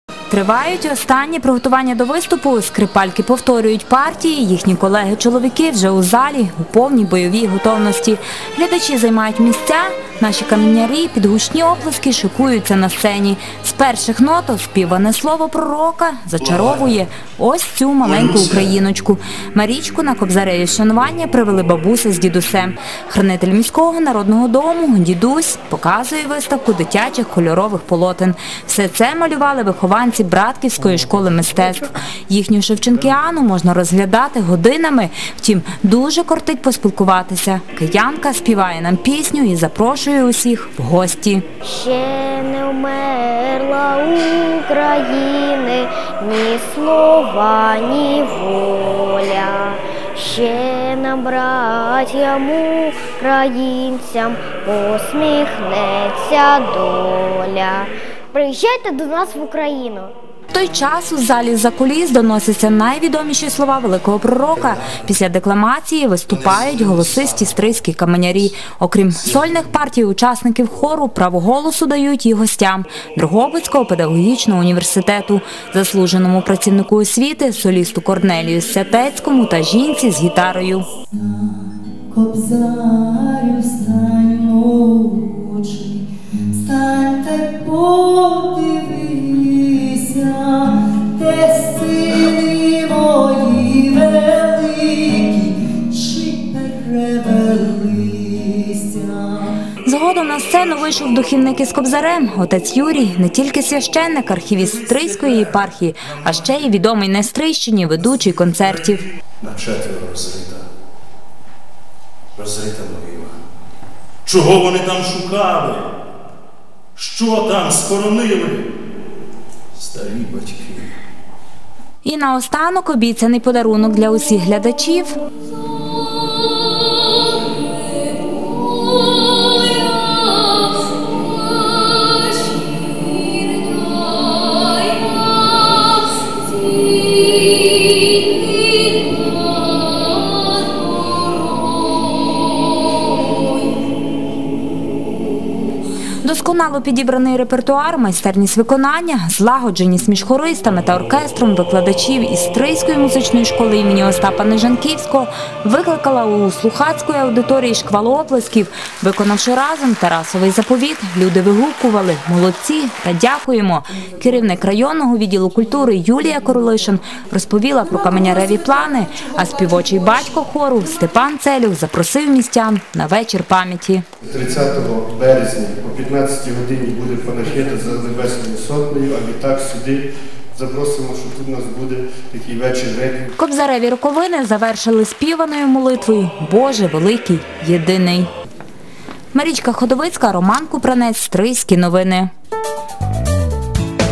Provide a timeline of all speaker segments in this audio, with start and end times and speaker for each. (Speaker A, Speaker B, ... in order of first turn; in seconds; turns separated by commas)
Speaker A: 0.3-41.4, Speaker B: 18.0-18.4, Speaker C: 41.6-60.1, Speaker A: 60.5-80.8, Speaker D: 81.1-86.0, Speaker D: 86.6-99.5, Speaker A: 99.8-109.0, Speaker B: 109.4-110.6, Speaker B: 112.4-113.3, Speaker B: 114.2-115.9, Speaker B: 117.0-118.6, Speaker B: 119.8-120.8, Speaker A: 122.0-125.2, Speaker A: 146.2-174.0, Speaker E: 174.2-183.3, Speaker A: 183.4-188.3, Speaker A: 189.3-192.3